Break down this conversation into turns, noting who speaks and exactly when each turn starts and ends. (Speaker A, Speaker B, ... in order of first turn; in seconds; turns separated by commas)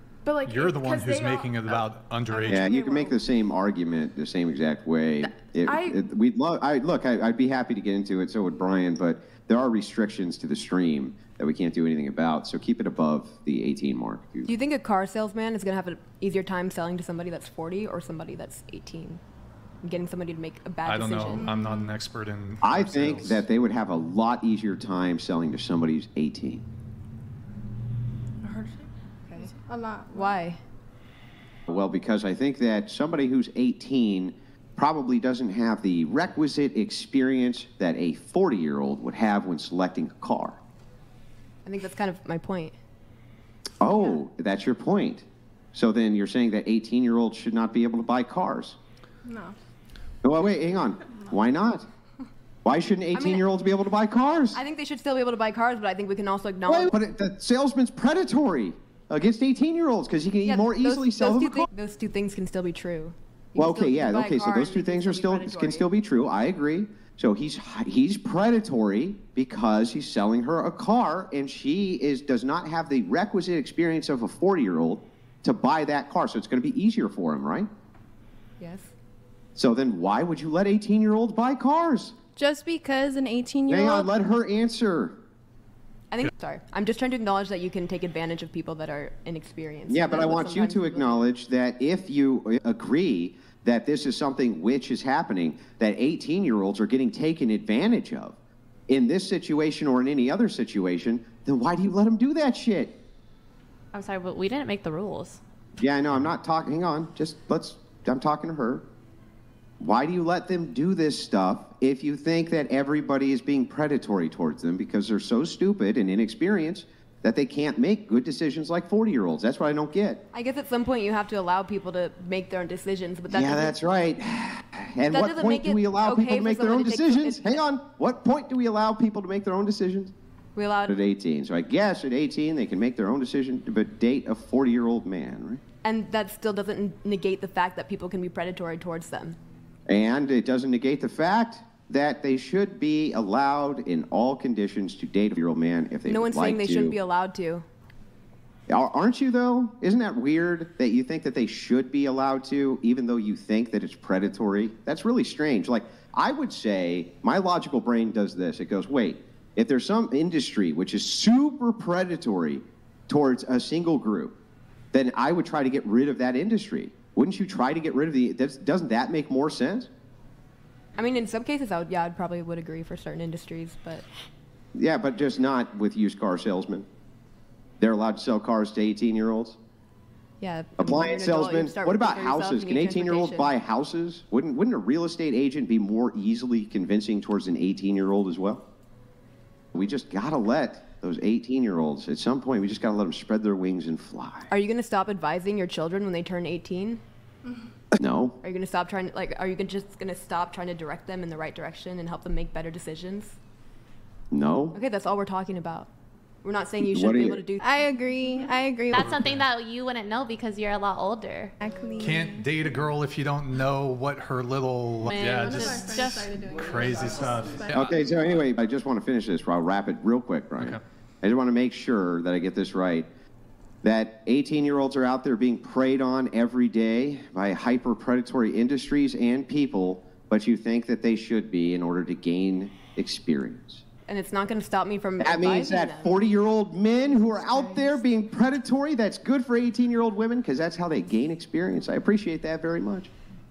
Speaker A: 0.2-3.2, Speaker B: 0.4-2.7, Speaker C: 2.5-14.5, Speaker A: 5.7-6.0, Speaker D: 14.4-19.2, Speaker D: 19.8-21.5, Speaker B: 20.8-23.4, Speaker E: 21.4-21.9, Speaker C: 22.6-26.6, Speaker A: 28.4-28.9, Speaker E: 29.6-30.4, Speaker D: 30.1-30.6, Speaker C: 31.7-40.6, Speaker D: 41.6-42.8, Speaker C: 43.8-48.8, Speaker E: 49.2-49.5, Speaker C: 50.2-51.9, Speaker C: 52.6-54.6, Speaker D: 53.1-53.5, Speaker D: 54.5-56.9, Speaker C: 56.6-61.7, Speaker D: 60.4-65.9, Speaker C: 63.5-77.7, Speaker D: 78.6-78.9, Speaker C: 79.5-82.1, Speaker E: 82.3-84.1, Speaker C: 83.7-85.2, Speaker D: 86.1-91.3, Speaker C: 89.9-98.3, Speaker C: 98.9-103.0, Speaker F: 103.9-105.4, Speaker C: 105.8-108.9, Speaker C: 109.8-120.2, Speaker D: 120.3-123.8, Speaker C: 123.3-130.1, Speaker D: 125.1-127.4, Speaker D: 130.5-131.0, Speaker C: 130.8-135.6, Speaker D: 135.8-139.4, Speaker C: 139.9-147.0, Speaker D: 146.1-147.6, Speaker C: 148.7-164.3, Speaker C: 164.9-169.9, Speaker D: 170.9-174.0, Speaker C: 174.7-176.8, Speaker C: 177.8-179.6, Speaker D: 180.4-183.5, Speaker C: 180.8-188.6, Speaker C: 189.7-194.5, Speaker D: 194.5-197.0, Speaker C: 197.9-198.4, Speaker D: 198.4-203.4, Speaker C: 204.3-204.7, Speaker D: 204.7-205.9, Speaker D: 206.4-207.8, Speaker C: 206.8-207.4, Speaker E: 207.6-209.2, Speaker F: 208.9-211.5, Speaker E: 211.6-212.4, Speaker B: 212.0-218.0, Speaker F: 215.1-216.9, Speaker C: 217.7-223.1, Speaker C: 223.8-233.8, Speaker D: 234.1-236.3, Speaker C: 235.2-243.1, Speaker D: 237.1-238.0